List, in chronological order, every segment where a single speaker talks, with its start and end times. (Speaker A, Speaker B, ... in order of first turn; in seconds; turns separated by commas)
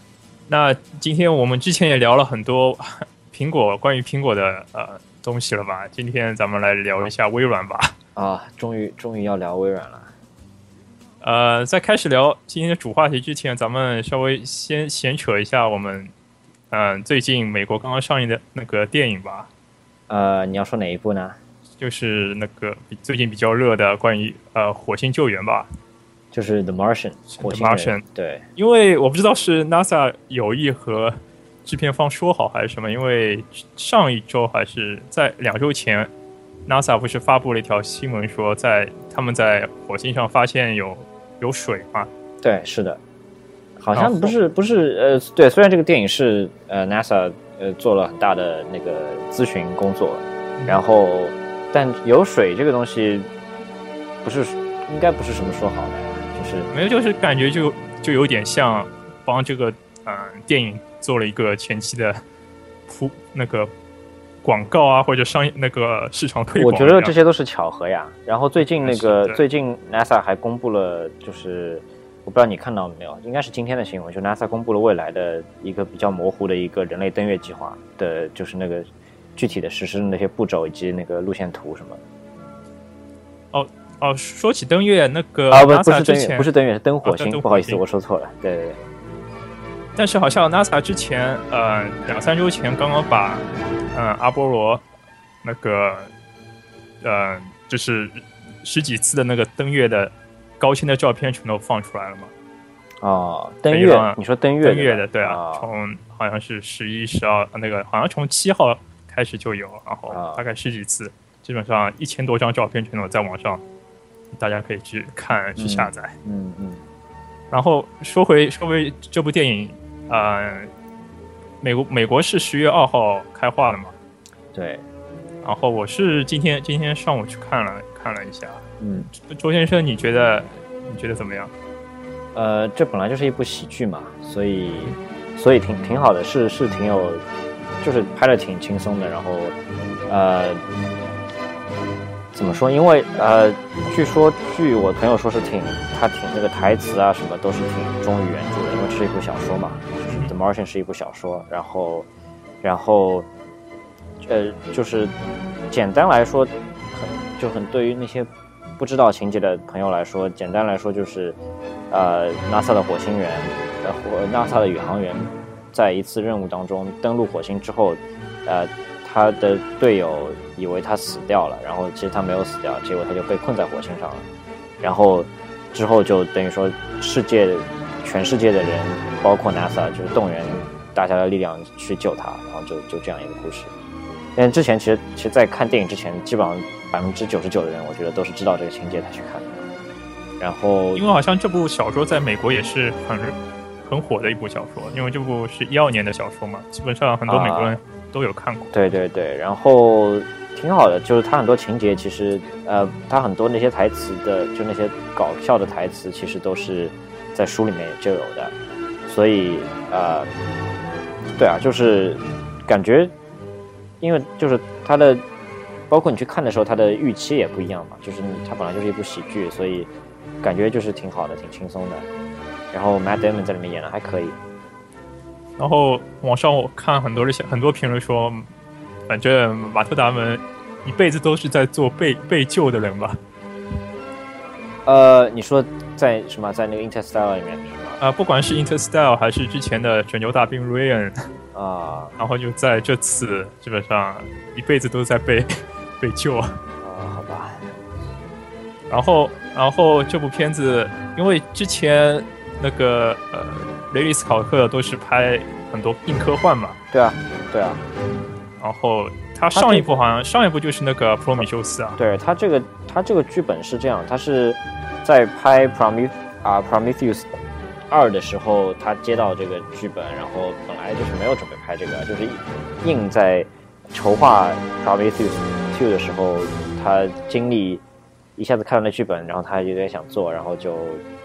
Speaker A: 0.5-8.0, Speaker B: 8.2-10.1, Speaker A: 11.2-16.1, Speaker A: 16.7-19.5, Speaker B: 20.1-21.4, Speaker A: 21.8-25.7, Speaker B: 26.3-28.4, Speaker A: 27.3-28.0, Speaker A: 28.6-36.1, Speaker A: 36.7-42.1, Speaker B: 42.4-43.0, Speaker B: 43.8-53.3, Speaker A: 43.9-44.4, Speaker B: 54.2-56.7, Speaker A: 56.7-62.2, Speaker A: 62.9-63.7, Speaker A: 64.4-67.2, Speaker B: 66.6-82.0, Speaker A: 68.8-69.4, Speaker A: 83.5-86.5, Speaker B: 85.5-88.8, Speaker A: 87.0-87.8, Speaker A: 90.0-94.8, Speaker A: 95.4-96.1, Speaker A: 97.0-102.3, Speaker B: 103.0-105.7, Speaker A: 103.7-113.6, Speaker B: 110.1-110.4, Speaker A: 114.3-116.2, Speaker B: 115.6-116.8, Speaker A: 117.5-120.7, Speaker A: 121.6-124.0, Speaker B: 124.5-124.8, Speaker A: 125.4-131.5, Speaker B: 128.8-129.1, Speaker B: 132.3-137.2, Speaker B: 137.8-139.6, Speaker B: 140.1-140.6, Speaker B: 142.3-152.1, Speaker A: 150.1-150.3, Speaker B: 152.6-153.3, Speaker B: 154.2-155.2, Speaker B: 155.7-161.4, Speaker B: 161.9-174.3, Speaker B: 174.8-183.7, Speaker B: 184.4-189.6, Speaker B: 190.4-191.0, Speaker A: 190.9-198.7, Speaker B: 197.3-197.8, Speaker B: 198.7-208.6, Speaker B: 209.1-210.3, Speaker B: 211.4-213.1, Speaker B: 214.0-215.2, Speaker B: 215.9-219.9, Speaker B: 220.4-222.1, Speaker B: 222.7-224.4, Speaker A: 225.6-228.5, Speaker A: 229.1-233.2, Speaker B: 234.9-238.0, Speaker A: 238.0-241.3, Speaker B: 241.5-242.2, Speaker A: 242.2-246.6, Speaker B: 246.8-247.8, Speaker A: 248.9-256.8, Speaker B: 256.9-257.8, Speaker A: 258.6-262.0, Speaker B: 259.5-260.0, Speaker B: 262.0-267.3, Speaker B: 267.9-277.8, Speaker B: 278.4-281.0